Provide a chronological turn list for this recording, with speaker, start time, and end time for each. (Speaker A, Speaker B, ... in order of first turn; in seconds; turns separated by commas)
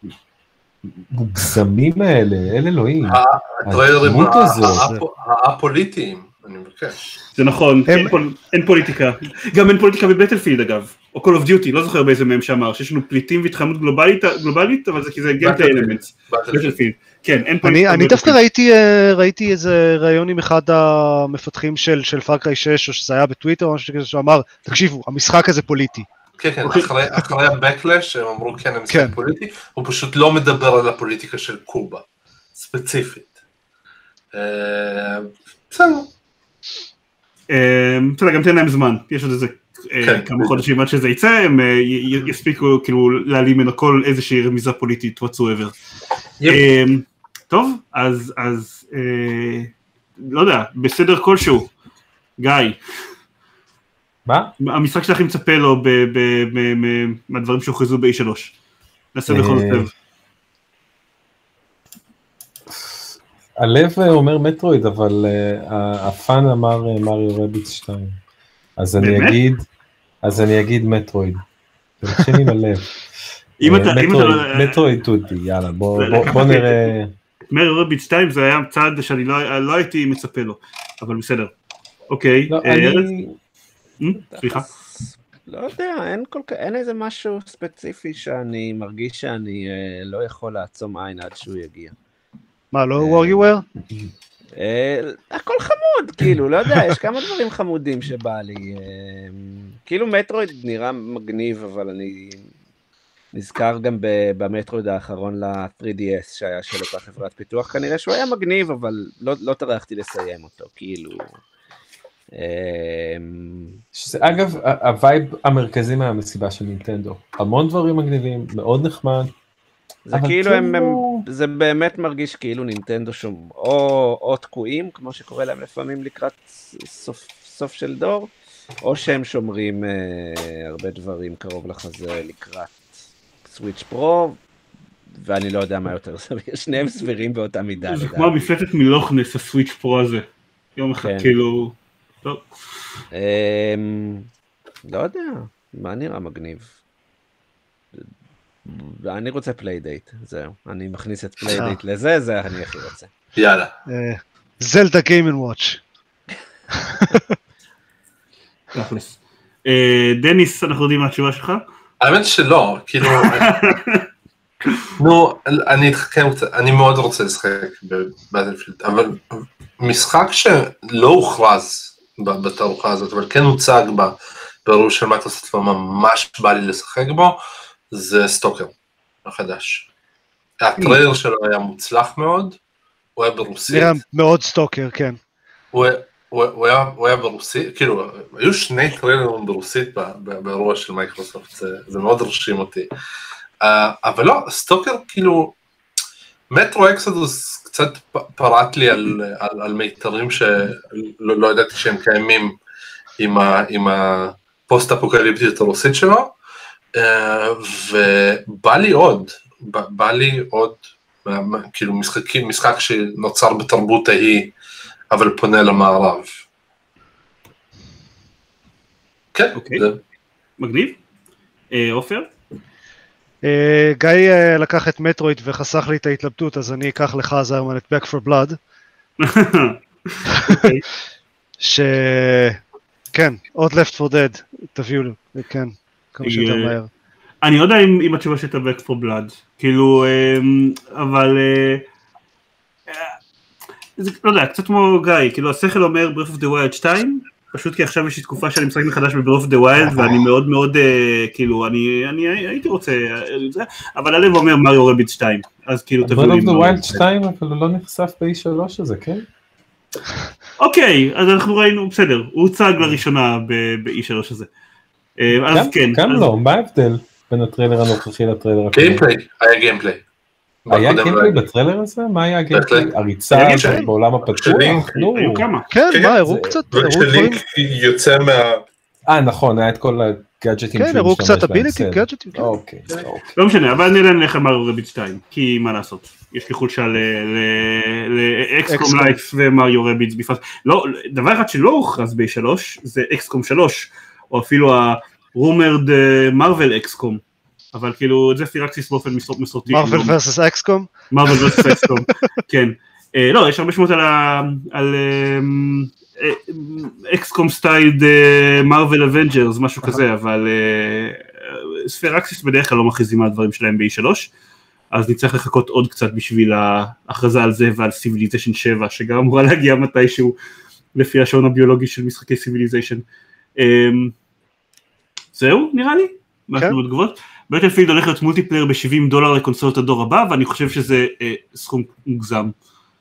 Speaker A: 0.9-4.9, Speaker B: 3.1-7.0, Speaker C: 4.7-5.0, Speaker D: 7.3-18.4, Speaker C: 7.9-8.2, Speaker B: 15.4-16.8, Speaker C: 17.6-26.1, Speaker B: 26.4-32.0, Speaker B: 32.5-33.3, Speaker B: 34.3-36.1, Speaker D: 37.5-45.7, Speaker B: 40.0-40.6, Speaker D: 46.5-51.7, Speaker D: 52.4-52.8, Speaker A: 54.3-54.5, Speaker D: 54.6-58.5, Speaker D: 59.1-59.9, Speaker A: 59.3-59.9, Speaker A: 62.7-68.2, Speaker A: 68.8-69.7, Speaker D: 69.0-69.4, Speaker A: 70.2-71.4, Speaker A: 72.0-73.0, Speaker D: 73.6-74.8, Speaker A: 73.6-77.1, Speaker D: 76.0-76.9, Speaker D: 77.5-81.5, Speaker D: 82.1-83.1, Speaker A: 82.5-83.4, Speaker D: 84.0-84.7, Speaker E: 84.3-91.9, Speaker C: 92.7-93.7, Speaker E: 93.0-93.5, Speaker E: 94.6-102.5, Speaker E: 103.3-111.3, Speaker E: 112.3-113.8, Speaker A: 113.9-119.3, Speaker E: 120.1-132.9, Speaker A: 120.1-121.2, Speaker E: 133.4-134.4, Speaker E: 135.1-138.4, Speaker D: 137.9-140.2, Speaker D: 140.8-142.4, Speaker E: 141.0-141.3, Speaker E: 143.1-144.3, Speaker E: 144.9-146.7, Speaker E: 148.7-153.1, Speaker C: 151.5-151.8, Speaker B: 153.4-153.7, Speaker C: 153.9-155.8, Speaker C: 156.9-157.2, Speaker D: 158.7-161.6, Speaker B: 162.0-163.7, Speaker D: 163.0-164.1, Speaker B: 165.0-169.2, Speaker B: 169.8-177.4, Speaker B: 177.9-178.7, Speaker B: 179.2-179.9, Speaker B: 180.6-182.6, Speaker B: 183.2-184.0, Speaker C: 183.7-185.2, Speaker B: 185.7-192.9, Speaker B: 193.6-195.6, Speaker B: 196.5-202.6, Speaker B: 203.2-206.3, Speaker B: 207.0-214.5, Speaker B: 215.1-216.4, Speaker B: 219.3-220.0, Speaker D: 219.6-219.8, Speaker D: 220.6-221.0, Speaker D: 221.7-222.3, Speaker C: 223.4-228.6, Speaker D: 229.2-230.8, Speaker C: 231.6-232.6, Speaker C: 233.1-236.9, Speaker D: 236.2-236.8, Speaker D: 237.4-241.8, Speaker D: 242.9-243.2, Speaker D: 244.0-257.0, Speaker A: 256.0-259.3, Speaker D: 260.6-264.5, Speaker D: 265.2-266.3, Speaker A: 265.5-269.1, Speaker B: 268.7-270.0, Speaker B: 270.6-271.4, Speaker A: 270.7-275.5, Speaker B: 272.5-274.8, Speaker C: 273.4-273.9, Speaker D: 274.9-275.7, Speaker C: 275.7-277.4, Speaker B: 275.9-278.6, Speaker A: 276.2-276.6, Speaker A: 279.1-283.4, Speaker C: 280.8-282.5, Speaker D: 283.4-297.2, Speaker C: 288.7-289.2, Speaker D: 297.7-300.2, Speaker C: 299.7-302.0, Speaker D: 301.1-314.3, Speaker D: 314.9-320.4, Speaker D: 321.0-323.1, Speaker D: 323.6-324.1, Speaker D: 325.4-332.5